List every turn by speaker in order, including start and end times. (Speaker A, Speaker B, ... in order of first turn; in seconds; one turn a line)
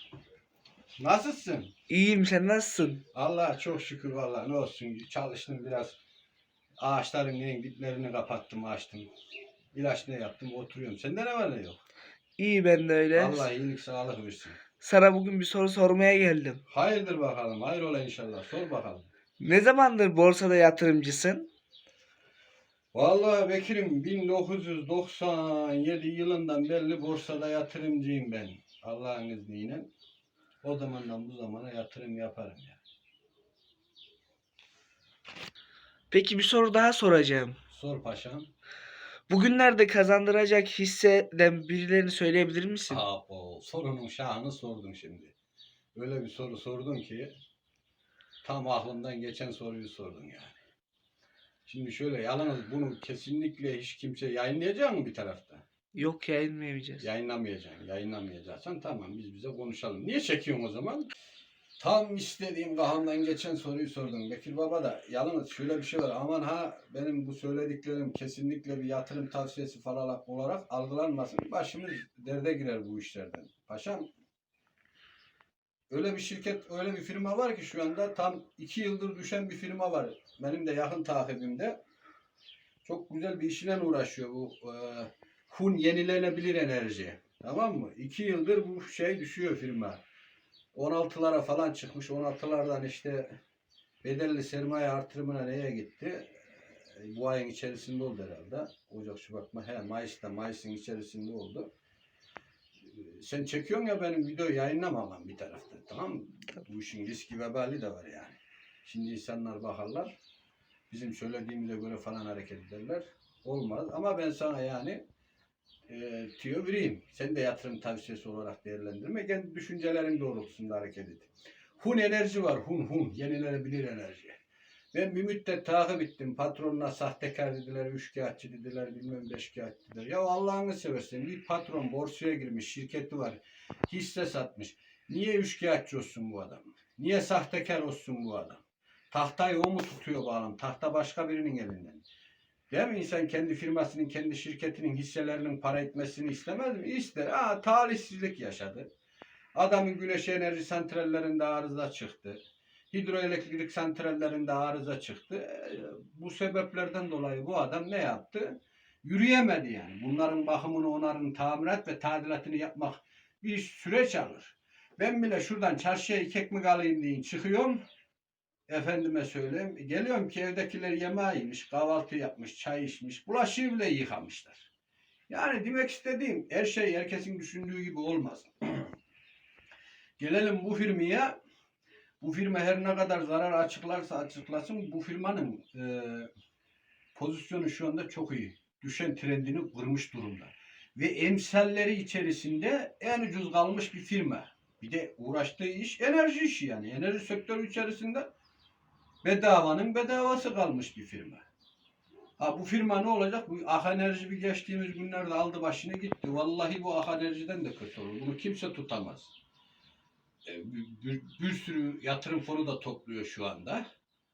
Speaker A: 1.0-1.7
Speaker B: 1.9-3.0
Speaker A: 3.1-6.0
Speaker A: 6.8-9.1
Speaker A: 9.7-11.8
Speaker B: 12.4-13.5
Speaker A: 13.1-14.6
Speaker B: 14.8-16.6
Speaker A: 16.7-19.1
Speaker B: 19.4-21.5
Speaker A: 22.9-29.9
Speaker A: 30.6-32.8
Speaker B: 36.1-37.6
Speaker A: 37.7-38.5
Speaker B: 39.3-43.0
Speaker A: 42.9-45.3
Speaker A: 45.9-47.3
Speaker A: 48.4-50.6
Speaker A: 51.6-55.6
Speaker B: 55.9-57.1
Speaker A: 57.0-61.1
Speaker A: 61.8-74.1
Speaker A: 75.9-81.8
Speaker A: 82.8-90.0
Speaker A: 90.7-93.4
Speaker A: 94.0-96.3
Speaker A: 96.9-101.7
Speaker A: 102.8-110.1
Speaker A: 110.9-115.0
Speaker A: 115.9-124.4
Speaker A: 124.9-142.0
Speaker A: 142.7-148.9
Speaker A: 149.5-152.4
Speaker A: 152.9-167.8
Speaker A: 168.7-174.7
Speaker A: 175.3-178.9
Speaker A: 180.2-181.4
Speaker A: 182.2-186.3
Speaker A: 187.1-198.3
Speaker A: 199.2-201.4
Speaker A: 202.4-209.3
Speaker A: 210.4-213.8